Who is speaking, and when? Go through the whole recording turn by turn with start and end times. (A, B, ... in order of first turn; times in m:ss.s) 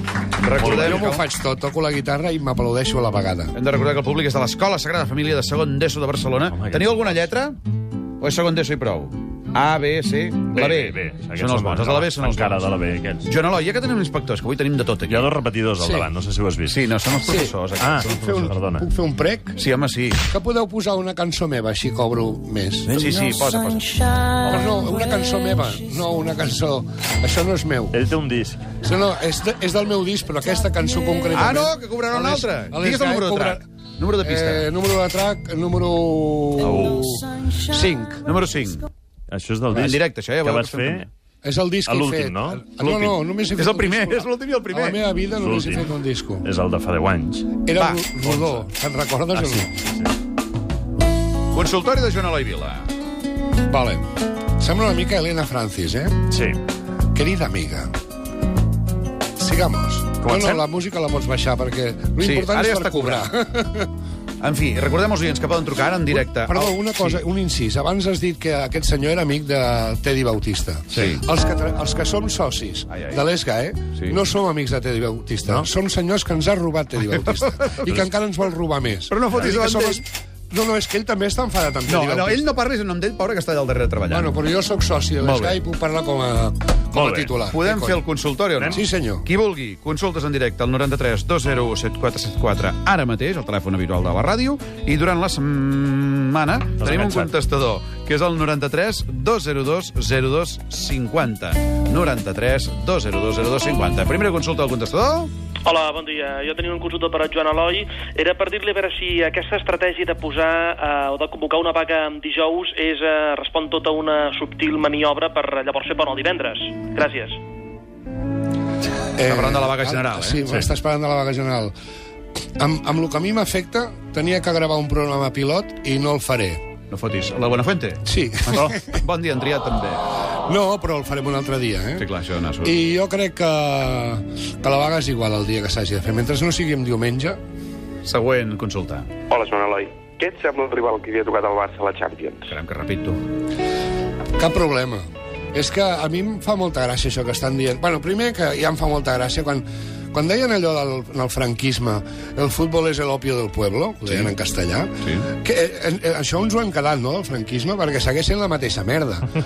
0:00.4-0:01.2 A
0:00.6-0:01.0 B
0:00.6-0:03.5 C
0:03.5-0:07.6 A
0:06.5-0:07.2 B
0:08.2-0:12.7 A
0:10.5-0:13.2 B
0:13.2-0:15.3 A
0:15.1-0:16.8 B
0:15.8-0:16.1 C
0:16.7-0:18.2 A
0:17.3-0:19.6 C
0:17.8-0:18.9 B
0:19.6-0:20.3 A
0:20.3-0:23.0 C
0:22.9-0:24.8 A
0:24.4-0:28.0 C
0:27.9-0:28.7 B
0:28.8-0:33.6 C
0:31.3-0:34.7 A
0:34.2-0:38.2 C
0:36.6-0:37.1 B
0:38.2-0:38.8 A
0:39.3-0:41.1 B
0:39.7-0:41.1 A
0:41.4-0:46.4 C
0:41.9-0:42.7 B
0:42.8-0:45.0 A
0:45.4-0:45.9 B
0:46.4-0:47.6 B
0:47.6-0:49.7 C
0:47.8-0:48.4 A
0:49.3-0:50.1 B
0:51.5-0:52.9 A
0:53.7-0:54.1 C
0:54.6-0:56.2 C
0:56.3-0:56.6 B
0:57.1-0:57.9 C
0:59.4-1:03.9 C
1:00.2-1:00.6 A
1:02.2-1:03.3 A
1:04.4-1:07.2 A
1:06.1-1:22.5 C
1:10.9-1:11.2 A
1:12.9-1:13.2 A
1:17.1-1:18.0 A
1:19.1-1:20.0 A
1:21.8-1:24.4 A
1:24.1-1:28.0 C
1:25.2-1:25.6 A
1:26.9-1:27.3 B
1:27.5-1:45.3 A
1:28.6-1:28.8 B
1:28.7-1:29.3 C
1:36.8-1:37.3 B
1:45.6-1:57.4 D
1:59.2-2:01.7 C
1:59.2-2:00.4 A
2:02.6-2:06.6 C
2:06.9-2:10.1 A
2:08.0-2:09.0 C
2:10.4-2:12.1 C
2:12.0-2:12.8 A
2:12.6-2:17.4 C
2:18.0-2:19.1 A
2:19.3-2:22.5 E
2:22.5-2:23.2 A
2:24.4-2:39.3 C
2:34.0-2:34.3 A
2:35.0-2:35.3 A